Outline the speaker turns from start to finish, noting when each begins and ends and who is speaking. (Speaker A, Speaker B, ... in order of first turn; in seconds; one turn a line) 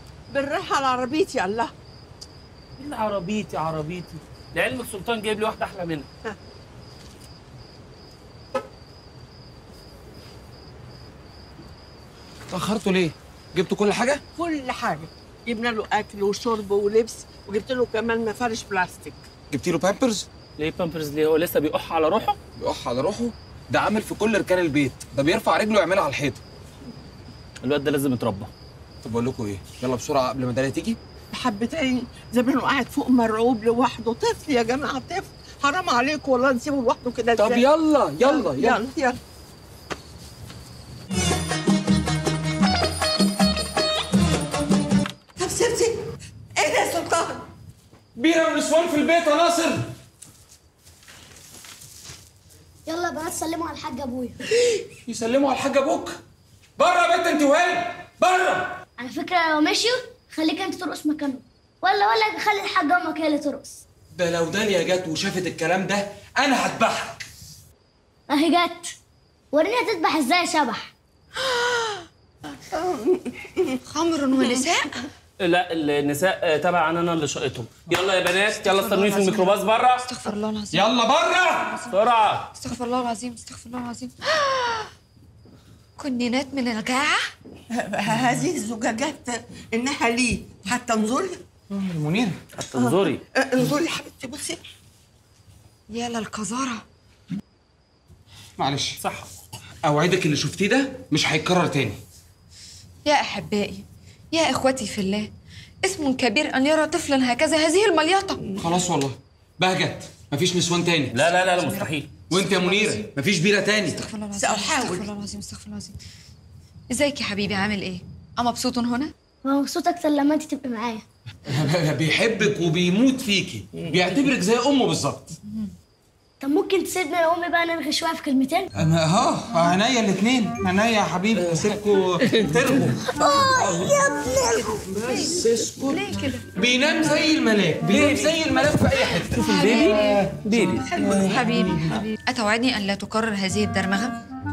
Speaker A: 0.3-1.7
Speaker B: 2.8-6.1
Speaker C: 12.5-14.2
Speaker A: 14.3-19.2
Speaker C: 19.5-20.3
Speaker B: 20.6-22.4
Speaker C: 22.6-26.4
Speaker B: 27.6-28.5
Speaker C: 29.0-31.0
Speaker A: 31.3-37.6
Speaker C: 37.4-38.8
Speaker A: 38.2-39.2
Speaker A: 45.4-46.0
Speaker A: 46.5-47.5
Speaker C: 48.1-49.9
Speaker D: 52.9-54.4
Speaker C: 55.0-56.2
Speaker C: 56.8-58.8
Speaker D: 59.0-63.8
Speaker C: 64.1-67.2
Speaker D: 68.3-68.9
Speaker D: 69.5-70.9
Speaker A: 72.7-73.8
Speaker E: 73.8-75.0
Speaker B: 75.4-80.0
Speaker E: 78.5-80.9
Speaker C: 80.7-81.8
Speaker E: 81.5-82.0
Speaker B: 81.9-82.5
Speaker E: 82.5-84.9
Speaker E: 86.0-87.3
Speaker A: 87.7-91.4
Speaker C: 91.7-92.4
Speaker B: 92.5-93.2
Speaker A: 92.7-94.6
Speaker E: 95.9-96.8
Speaker C: 98.6-99.0
Speaker B: 99.0-99.3
Speaker C: 99.8-102.0
Speaker E: 103.0-105.3
Speaker E: 105.8-108.5
Speaker C: 108.5-111.2
Speaker B: 111.1-112.1
Speaker E: 111.5-113.1
Speaker C: 112.3-114.1
Speaker E: 113.9-116.0
Speaker A: 114.3-115.1
Speaker E: 116.9-119.1
Speaker D: 119.4-121.0
Speaker C: 121.5-125.3
Speaker D: 126.4-128.7
Speaker C: 128.7-133.1
Speaker A: 133.2-135.4
Speaker D: 133.6-134.4
Speaker E: 134.6-136.5
Speaker C: 135.2-136.0
Speaker C: 136.5-140.4
Speaker B: 137.9-138.4
Speaker B: 139.4-140.8
Speaker E: 139.4-140.3
Speaker A: 140.6-142.1
Speaker C: 141.0-141.2
Speaker E: 141.2-144.2